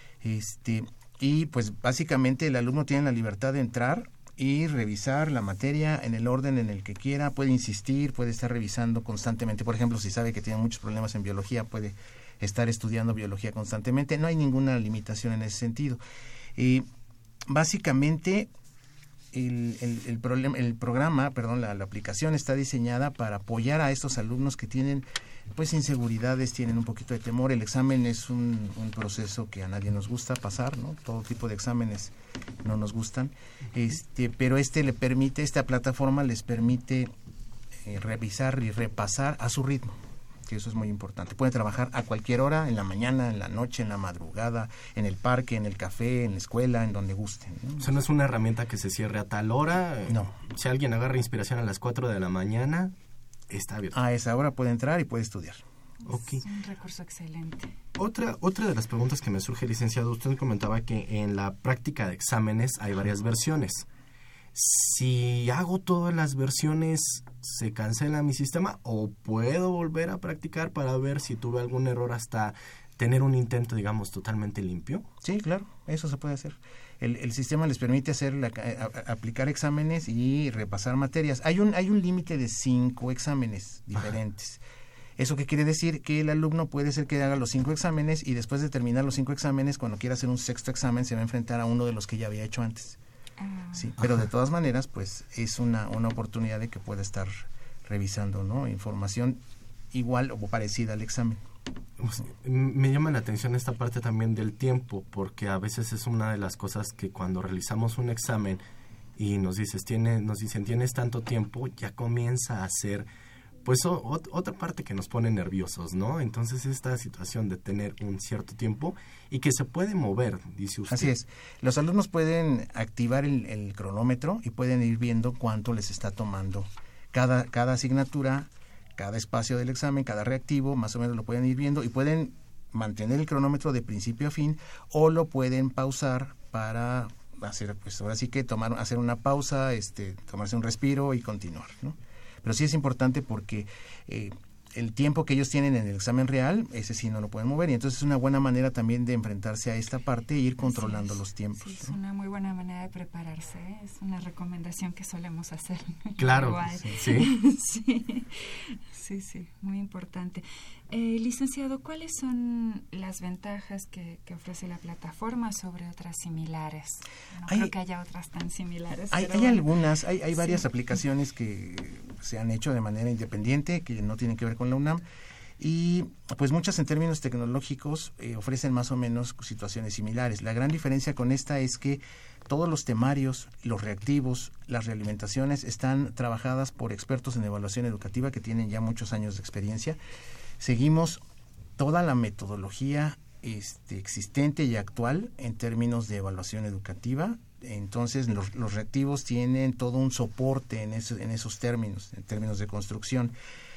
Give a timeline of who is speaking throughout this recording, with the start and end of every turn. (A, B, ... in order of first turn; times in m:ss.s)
0:00.2-0:16.0 A
0:16.6-0:16.8 A
0:17.5-0:18.5 A
0:19.3-0:37.1 A
0:37.8-0:39.9 A
0:40.5-0:47.9 A
0:47.8-0:52.9 B
0:53.5-0:54.0 B
0:53.9-0:55.6 A
0:56.1-0:56.4 B
0:56.1-0:57.7 C
0:58.0-1:03.8 B
1:04.5-1:15.0 B
1:15.2-1:24.6 A
1:25.2-1:33.0 A
1:33.4-1:33.9 C
1:33.7-1:39.4 A
1:39.9-1:41.4 A
1:42.0-1:48.6 B
1:49.2-1:53.1 B
1:53.6-2:01.1 B
2:00.9-2:32.0 A
2:30.6-2:49.7 C
2:36.2-2:37.3 B
2:49.1-2:55.0 A
2:50.3-2:50.6 C
2:55.6-3:10.0 A
3:10.6-3:11.2 A
3:11.8-3:23.3 A